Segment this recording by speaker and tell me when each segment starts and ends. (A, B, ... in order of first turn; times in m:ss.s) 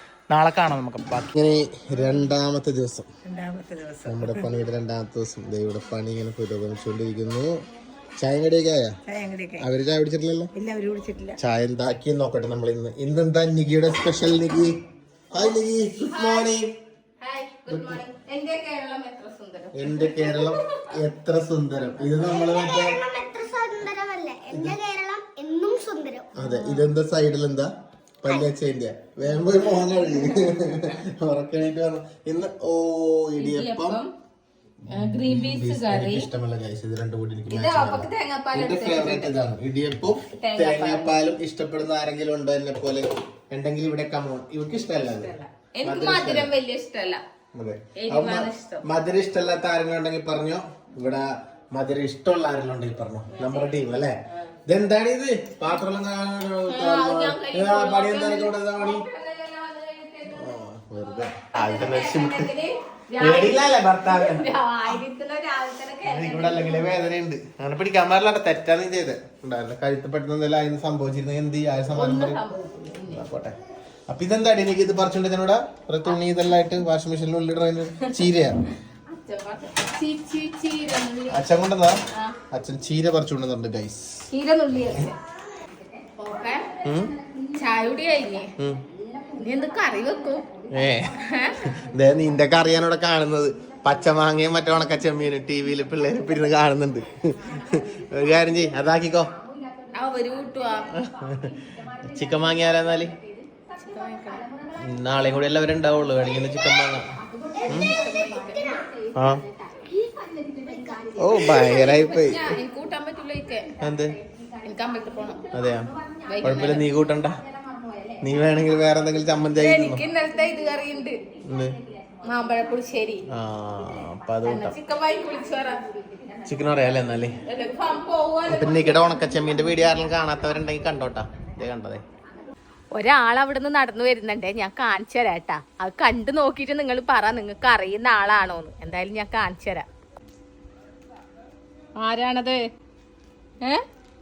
0:00.3-0:03.1 A
0:03.2-0:04.5 B
0:04.0-0:07.6 A
0:08.2-0:09.0 A
0:09.1-0:09.6 B
0:09.6-0:10.5 A
0:10.5-0:11.4 B
0:11.4-0:14.8 A
0:15.3-0:16.7 A
0:16.1-0:16.5 C
0:17.2-0:20.9 C
0:17.7-0:18.0 A
0:19.7-0:23.0 A
0:22.2-0:26.3 D
0:24.5-0:24.8 A
0:26.4-0:27.7 A
0:26.4-0:26.8 C
0:28.2-0:34.0 A
0:30.1-0:30.5 C
0:33.4-0:34.1 C
0:34.9-0:46.5 A
0:34.9-0:36.3 C
0:37.5-0:39.3 C
0:40.4-0:41.1 C
0:45.2-0:47.2 C
0:47.5-0:59.1 A
0:48.0-0:48.8 C
0:53.3-0:54.5 C
0:56.7-1:06.9 C
1:00.3-1:02.5 A
1:03.2-1:05.0 A
1:06.0-1:12.4 A
1:11.9-1:13.3 C
1:13.1-1:13.6 A
1:14.1-1:18.6 A
1:19.1-1:21.4 C
1:21.3-1:22.0 A
1:22.1-1:22.4 C
1:22.5-1:24.3 A
1:24.3-1:25.1 C
1:26.2-1:26.7 C
1:26.8-1:27.1 A
1:27.5-1:28.5 C
1:28.6-1:28.8 A
1:29.3-1:30.5 C
1:30.7-1:39.3 A
1:31.1-1:31.7 C
1:39.9-1:41.0 C
1:40.9-1:43.2 A
1:43.8-1:44.5 C
1:44.7-1:47.1 A
1:46.5-1:48.9 D
1:47.5-1:53.8 C
1:47.7-1:47.9 A
1:49.1-1:49.4 A
1:50.7-1:51.8 D
1:51.2-1:52.6 A
1:53.8-1:54.2 A
1:54.6-1:55.5 C
1:55.5-1:57.4 A
1:56.2-1:56.9 C
1:58.2-2:00.0 A
1:59.6-2:01.2 C
2:01.4-2:01.8 A
2:02.2-2:03.2 C
2:03.3-2:04.8 A
2:04.4-2:05.8 C
2:06.4-2:07.4 A
2:07.4-2:09.1 C
2:08.5-2:12.0 A
2:12.9-2:19.8 C
2:22.0-2:22.6 C